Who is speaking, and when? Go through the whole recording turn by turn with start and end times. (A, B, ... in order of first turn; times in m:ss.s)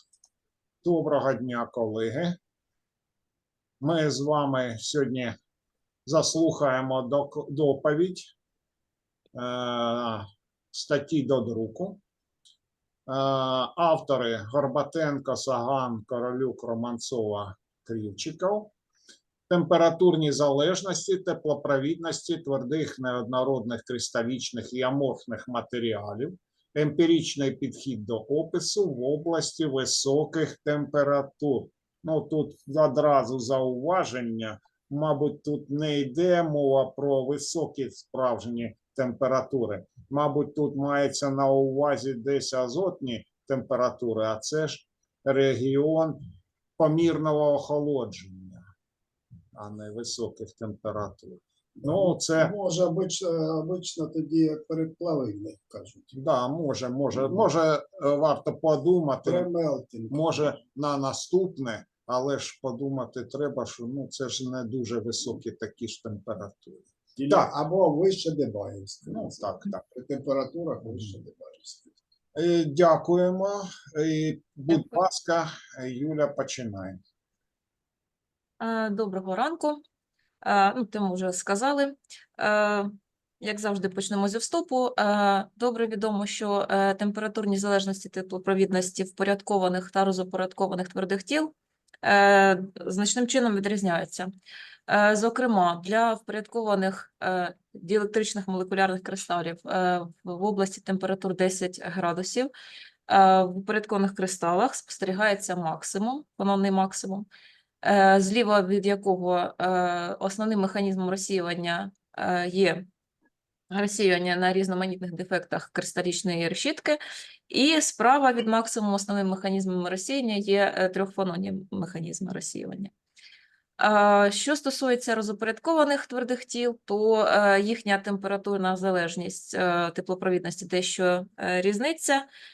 0:00.8-0:02.4 A
0:03.8-0:05.3 A
0:06.0-0:08.3 A
0:09.3-0:12.0 A
0:13.1-0:18.7 A
0:19.5-0:46.2 A
0:46.8-0:48.6 A
0:49.5-0:52.5 A
0:51.8-0:56.1 B
0:56.1-0:59.5 A
0:59.2-1:00.2 B
1:00.1-1:07.5 A
1:07.2-1:12.0 B
1:09.1-1:09.8 A
1:12.4-1:17.0 A
1:18.6-1:19.8 C
1:20.4-1:31.5 C
1:32.0-1:34.3 C
1:34.9-1:42.5 C
1:43.1-1:47.3 C
1:47.8-1:52.8 C
1:53.7-2:02.9 C
2:03.8-2:12.2 C